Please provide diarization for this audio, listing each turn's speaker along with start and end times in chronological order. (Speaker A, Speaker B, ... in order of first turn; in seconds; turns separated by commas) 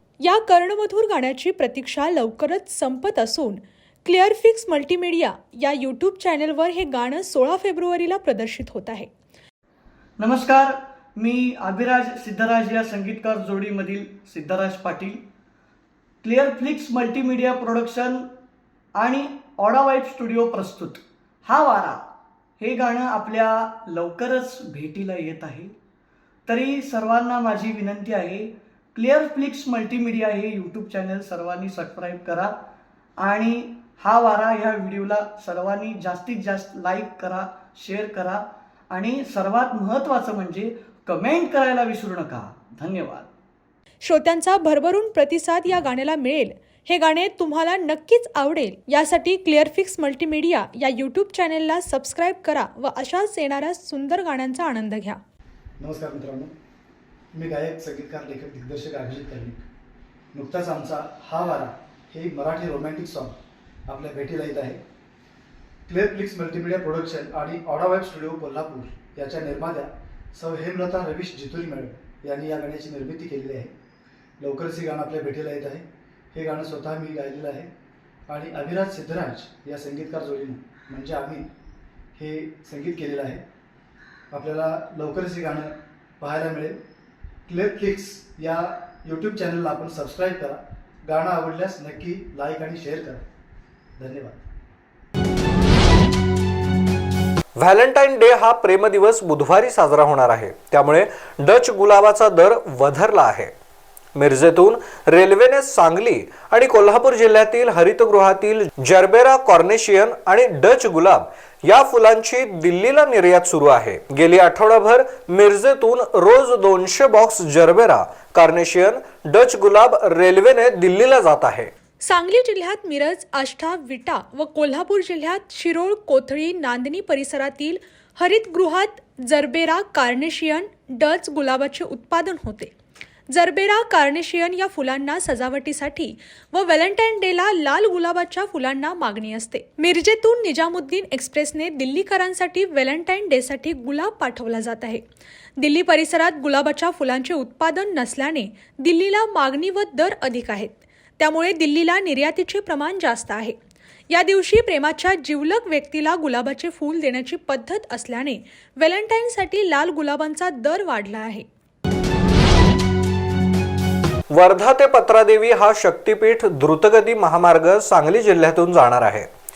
Speaker A: 0.2-9.1, Speaker B: 10.2-15.2, Speaker B: 16.2-18.2, Speaker B: 19.0-22.0, Speaker B: 22.6-25.7, Speaker B: 26.5-32.5, Speaker B: 33.2-38.4, Speaker B: 38.9-43.3, Speaker A: 44.0-55.2, Speaker C: 55.8-56.5, Speaker C: 57.3-59.6, Speaker C: 60.3-63.4, Speaker C: 63.9-64.8, Speaker C: 65.9-73.7, Speaker C: 74.4-77.7, Speaker C: 78.3-81.5, Speaker C: 82.2-83.5, Speaker C: 84.3-86.8, Speaker C: 87.5-93.2, Speaker C: 94.0-94.5, Speaker D: 97.6-103.5, Speaker D: 104.2-121.7, Speaker A: 122.0-132.7, Speaker A: 133.3-145.0, Speaker A: 145.6-153.6, Speaker A: 154.1-161.5, Speaker D: 164.3-169.3